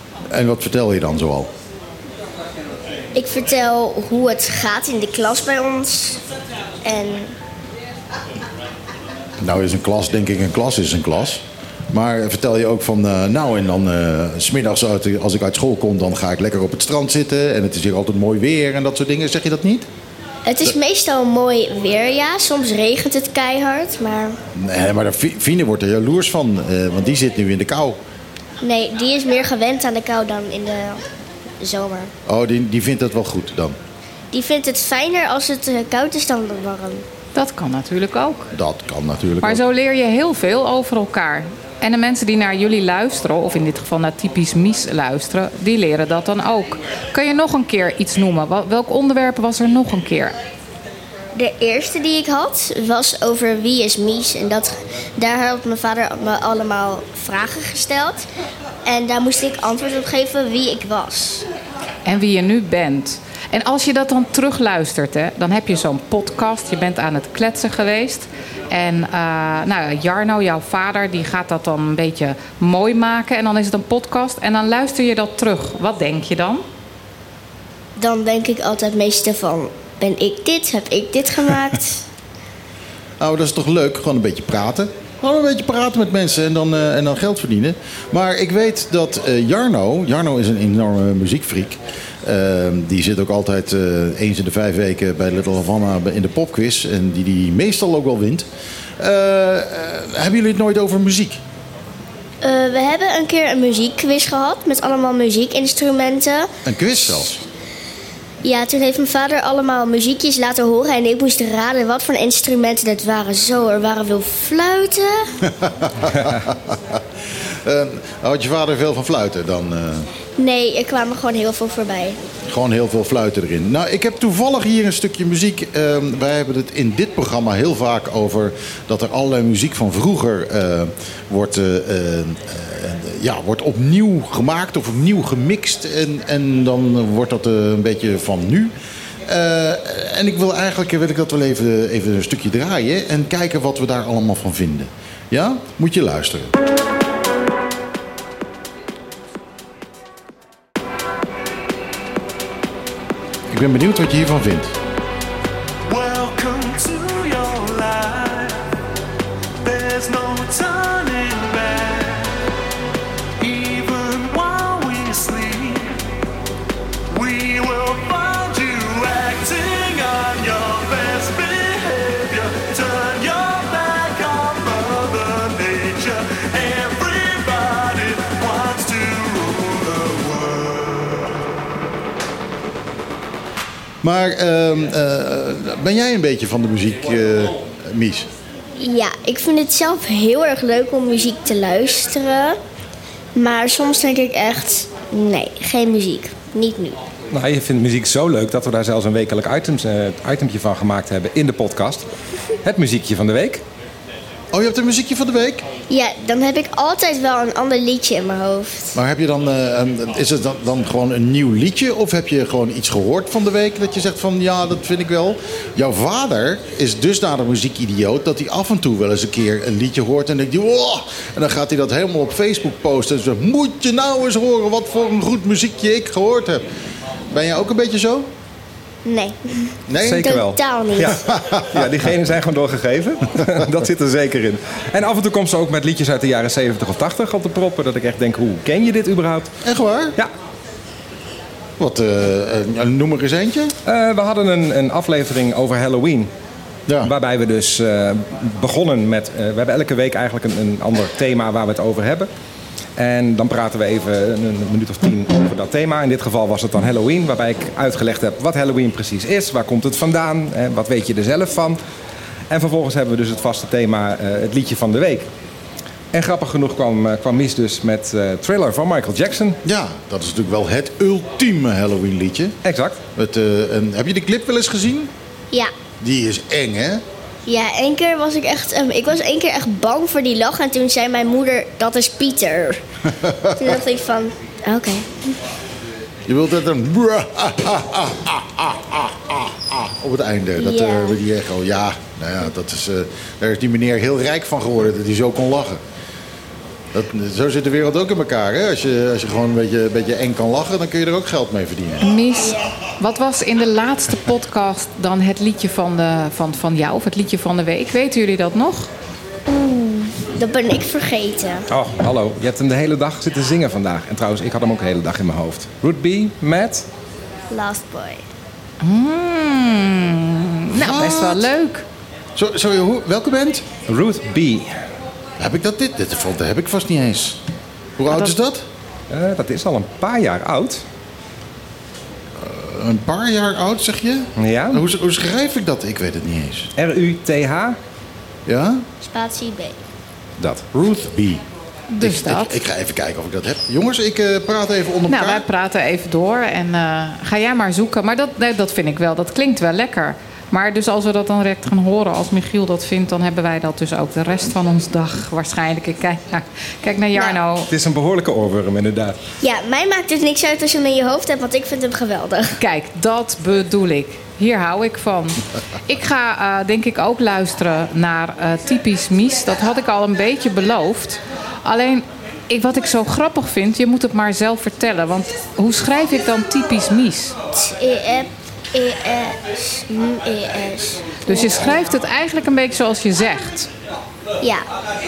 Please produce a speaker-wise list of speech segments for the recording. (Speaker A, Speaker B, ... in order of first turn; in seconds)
Speaker A: 0.3-1.5, 9.4-19.9, 24.5-28.0, 32.2-33.8, 38.5-39.6, 83.2-98.5, 99.0-101.4, 106.6-107.4, 115.5-117.0, 117.6-120.1, 122.5-138.7, 139.2-146.5, 153.5-154.8, 184.0-188.3, 204.5-205.6, 208.9-226.7, 227.3-228.3, 229.9-230.3, 231.3-231.6, 239.6-240.2, 241.8-243.7, 269.6-272.5, 273.1-275.1, 276.0-277.0, 283.1-283.7, 286.3-295.8, 296.9-302.1, 320.7-321.5, 322.4-323.6, 325.4-327.4, 328.0-328.6, 332.4-336.7, 338.5-338.8, 340.7-341.4, 342.0-345.4
Speaker B: 3.1-6.2, 6.8-7.3, 20.4-24.4, 28.6-31.0, 31.6-32.1, 34.3-37.0, 51.3-58.2, 58.8-61.5, 78.0-82.0, 102.4-106.5, 108.4-115.3, 120.4-122.2, 188.8-192.6, 193.3-197.0, 205.9-208.9, 229.0-231.2, 277.5-282.8, 283.6-285.3, 290.6-291.2, 302.4-302.7, 309.5-311.6, 317.5-318.2, 339.0-339.8, 357.1-357.4, 359.4-362.6, 377.5-381.7, 384.4-384.7
Speaker C: 37.3-38.4, 39.4-50.3, 62.0-76.6, 302.0-308.9, 318.8-321.8, 341.9-342.6, 345.1-357.7, 362.6-377.3, 381.2-383.7
Speaker D: 155.9-158.8, 159.6-162.4, 163.4-166.0, 167.1-181.5
Speaker E: 197.3-202.1, 202.6-203.6, 230.0-239.5, 243.8-246.3, 247.0-252.3, 253.0-261.8, 262.5-265.3, 266.1-269.6, 272.6-273.0, 311.7-316.9, 323.9-324.7, 329.1-330.8, 334.4-334.8, 336.8-337.8, 357.7-359.2